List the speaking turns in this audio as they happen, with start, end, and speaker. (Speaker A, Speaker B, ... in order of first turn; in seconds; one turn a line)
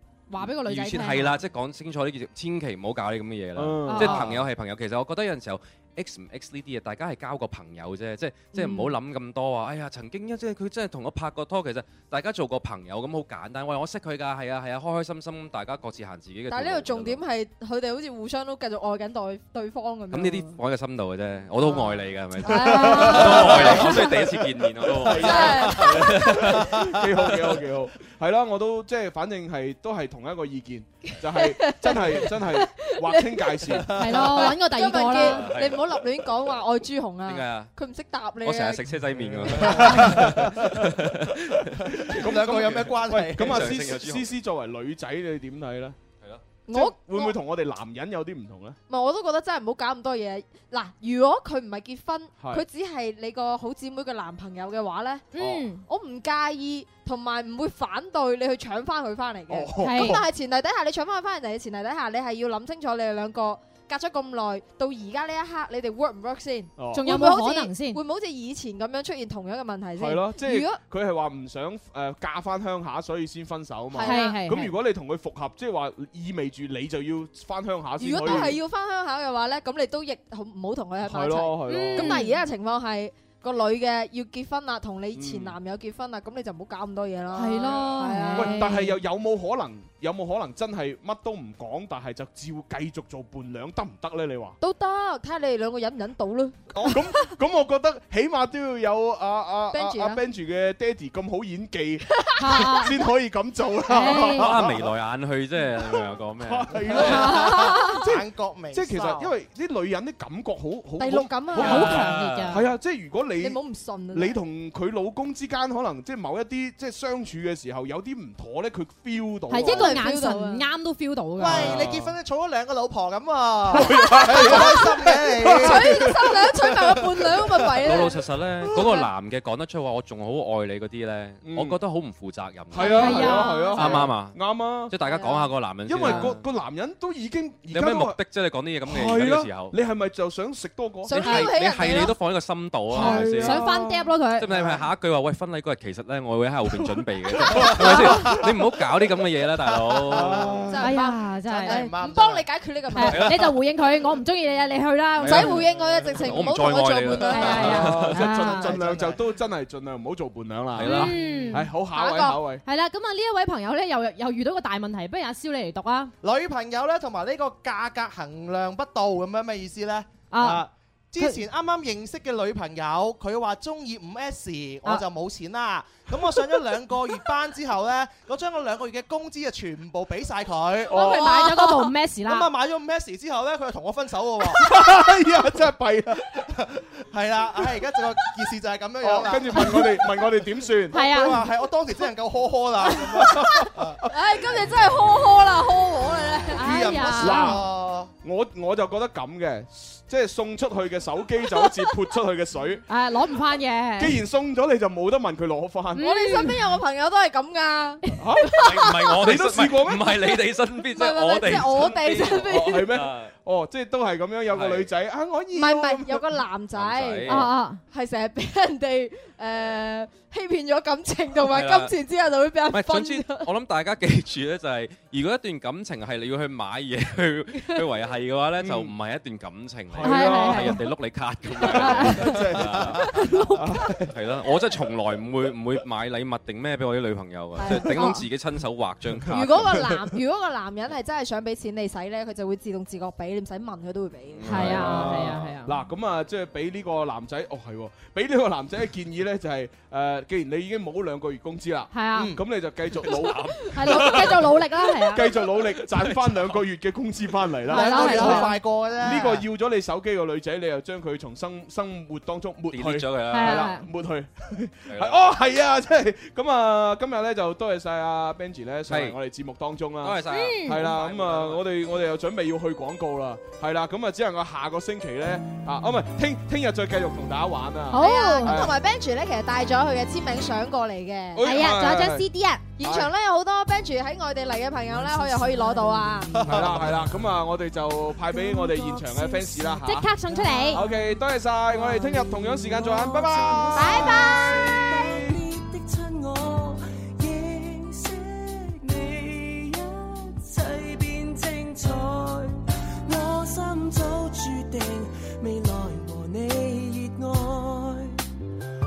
Speaker A: 0.3-1.4
Speaker B: 0.4-17.2
Speaker C: 3.6-4.5
Speaker A: 3.9-4.2
Speaker D: 16.5-20.6
Speaker B: 20.1-26.7
Speaker D: 21.6-24.1
Speaker C: 22.5-24.1
Speaker A: 22.6-23.3
Speaker E: 23.4-24.9
Speaker C: 24.8-33.9
Speaker D: 25.2-26.0
Speaker E: 25.7-26.1
Speaker B: 27.3-27.6
Speaker D: 31.3-38.9
Speaker A: 34.0-35.5
Speaker B: 35.2-36.0
Speaker B: 37.3-37.7
Speaker B: 38.4-41.8
Speaker C: 39.3-40.8
Speaker E: 39.4-40.0
Speaker D: 39.6-39.9
Speaker C: 41.9-46.0
Speaker E: 42.1-43.9
Speaker B: 42.5-44.3
Speaker D: 46.7-47.4
Speaker C: 46.7-48.8
Speaker D: 48.9-55.3
Speaker A: 55.3-55.8
Speaker C: 55.4-55.7
Speaker D: 55.9-70.8
Speaker C: 59.5-60.2
Speaker A: 59.8-60.2
Speaker C: 66.8-67.1
Speaker A: 66.9-68.0
Speaker C: 70.0-78.6
Speaker D: 73.9-74.4
Speaker A: 74.0-74.7
Speaker D: 78.0-88.7
Speaker C: 81.0-82.2
Speaker A: 81.7-82.4
Speaker C: 85.1-85.6
Speaker A: 87.3-88.9
Speaker C: 88.3-94.6
Speaker D: 94.6-97.3
Speaker C: 96.7-104.9
Speaker D: 99.7-100.2
Speaker D: 102.2-102.7
Speaker A: 102.4-103.0
Speaker A: 103.9-104.5
Speaker B: 104.2-107.1
Speaker C: 106.4-113.6
Speaker A: 107.0-107.8
Speaker D: 107.0-108.0
Speaker E: 107.2-109.3
Speaker D: 111.0-112.1
Speaker A: 111.6-112.7
Speaker B: 111.8-112.6
Speaker D: 113.4-114.4
Speaker C: 114.1-120.0
Speaker A: 119.5-121.7
Speaker D: 119.6-120.6
Speaker E: 121.4-126.5
Speaker C: 121.4-122.2
Speaker C: 123.8-126.2
Speaker D: 124.1-124.7
Speaker D: 125.6-128.2
Speaker E: 127.2-127.5
Speaker B: 127.8-136.4
Speaker C: 131.4-131.8
Speaker C: 132.7-134.9
Speaker D: 132.8-134.1
Speaker A: 132.8-134.0
Speaker D: 135.0-135.5
Speaker C: 135.9-138.2
Speaker B: 137.7-139.8
Speaker C: 138.8-141.4
Speaker D: 141.1-142.2
Speaker B: 141.1-143.7
Speaker C: 142.9-144.0
Speaker A: 142.9-144.5
Speaker B: 144.4-150.6
Speaker E: 144.5-144.8
Speaker C: 146.7-148.8
Speaker E: 147.6-148.4
Speaker E: 149.7-150.8
Speaker C: 150.1-150.8
Speaker D: 150.7-153.3
Speaker A: 150.8-151.8
Speaker E: 151.4-152.5
Speaker A: 153.0-155.6
Speaker B: 153.1-153.4
Speaker D: 155.2-158.1
Speaker B: 155.2-155.6
Speaker C: 155.3-156.3
Speaker B: 156.2-158.2
Speaker A: 157.2-158.8
Speaker C: 157.4-162.6
Speaker E: 158.6-159.2
Speaker B: 160.8-161.2
Speaker A: 160.8-161.7
Speaker D: 161.9-162.4
Speaker A: 162.7-166.1
Speaker E: 166.2-185.0
Speaker A: 170.3-170.7
Speaker A: 171.2-171.4
Speaker C: 180.9-181.4
Speaker A: 180.9-182.5
Speaker C: 184.4-186.6
Speaker E: 186.3-190.0
Speaker C: 189.0-191.0
Speaker E: 190.9-194.0
Speaker A: 190.9-191.4
Speaker D: 193.2-197.1
Speaker A: 196.6-197.6
Speaker E: 196.6-198.1
Speaker C: 197.2-197.6
Speaker C: 198.2-202.8
Speaker A: 202.9-204.2
Speaker C: 204.0-206.0
Speaker A: 206.0-206.6
Speaker D: 206.0-209.1
Speaker C: 208.2-210.3
Speaker B: 208.6-213.3
Speaker D: 210.9-212.9
Speaker C: 212.4-216.4
Speaker B: 214.5-214.9
Speaker D: 215.5-223.5
Speaker B: 216.8-217.5
Speaker A: 217.3-217.8
Speaker B: 221.5-221.9
Speaker B: 222.7-233.1
Speaker C: 228.6-228.9
Speaker C: 229.9-230.8
Speaker A: 230.0-230.8
Speaker D: 231.7-232.4
Speaker C: 231.7-234.2
Speaker A: 231.8-232.5
Speaker A: 233.1-233.8
Speaker B: 234.1-239.7
Speaker D: 237.6-238.2
Speaker C: 239.1-240.1
Speaker D: 239.3-244.4
Speaker B: 244.4-245.5
Speaker A: 244.5-245.7
Speaker C: 244.5-278.7
Speaker A: 251.9-252.3
Speaker E: 252.1-252.4
Speaker A: 253.7-255.3
Speaker B: 253.9-254.2
Speaker B: 255.8-256.6
Speaker A: 257.7-258.6
Speaker E: 257.7-259.4
Speaker B: 262.7-263.7
Speaker A: 263.3-263.9
Speaker B: 264.9-265.2
Speaker B: 268.9-269.2
Speaker B: 270.0-271.6
Speaker A: 270.3-270.9
Speaker A: 277.9-278.6
Speaker D: 277.9-281.5
Speaker C: 281.3-282.3
Speaker A: 281.4-282.6
Speaker D: 282.8-286.3
Speaker C: 282.8-283.1
Speaker F: 284.9-287.2
Speaker E: 286.3-286.9
Speaker C: 286.5-290.1
Speaker F: 288.3-308.2
Speaker A: 289.8-290.8
Speaker C: 290.7-295.1
Speaker D: 293.7-294.8